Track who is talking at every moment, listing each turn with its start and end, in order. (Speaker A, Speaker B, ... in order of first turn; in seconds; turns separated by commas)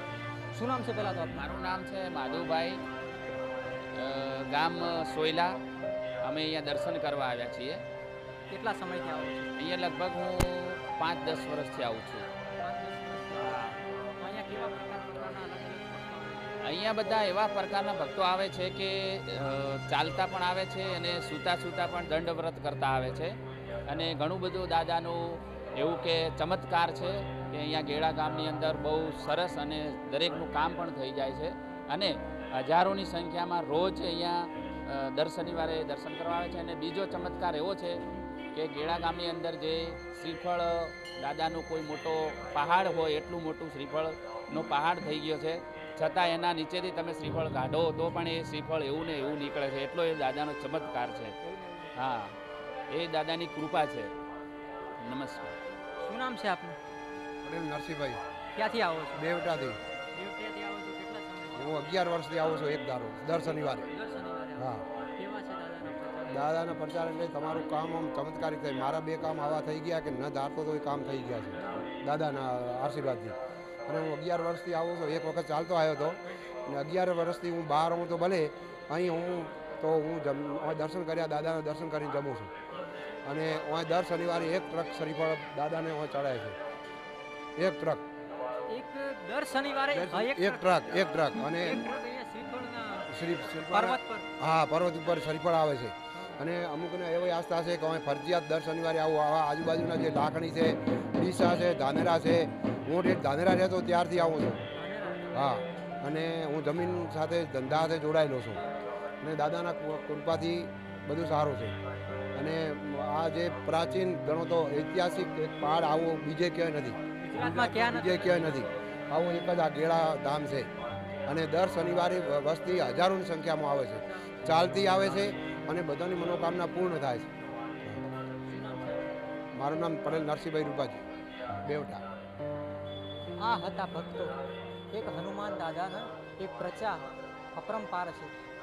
Speaker A: 0.5-1.4, Speaker B: 1.3-2.8, Speaker B: 4.0-5.6, Speaker B: 6.2-7.8, Speaker A: 8.5-9.5, Speaker B: 9.6-12.3, Speaker A: 12.6-16.6, Speaker B: 13.3-13.8, Speaker B: 16.6-23.3, Speaker B: 23.9-38.0, Speaker B: 38.5-51.3, Speaker A: 51.4-51.9, Speaker B: 52.0-52.4, Speaker B: 52.9-54.1, Speaker B: 55.0-55.5, Speaker A: 56.0-56.8, Speaker C: 57.4-58.2, Speaker A: 58.5-59.2, Speaker C: 59.1-59.8, Speaker A: 60.1-61.9, Speaker C: 61.5-63.9, Speaker A: 63.6-66.5, Speaker C: 64.6-64.8, Speaker C: 66.3-73.3, Speaker C: 73.9-82.5, Speaker C: 83.2-86.5, Speaker C: 87.6-88.0, Speaker A: 88.7-94.3, Speaker C: 89.9-91.8, Speaker C: 93.1-104.6, Speaker A: 96.1-96.4, Speaker A: 104.8-105.7, Speaker C: 105.3-108.6, Speaker C: 109.2-111.7, Speaker C: 112.3-120.7, Speaker A: 117.2-118.7, Speaker C: 121.3-127.3, Speaker A: 124.0-124.7, Speaker A: 128.4-129.2, Speaker C: 129.5-131.0, Speaker C: 131.6-132.0, Speaker A: 133.4-134.3, Speaker A: 134.9-138.3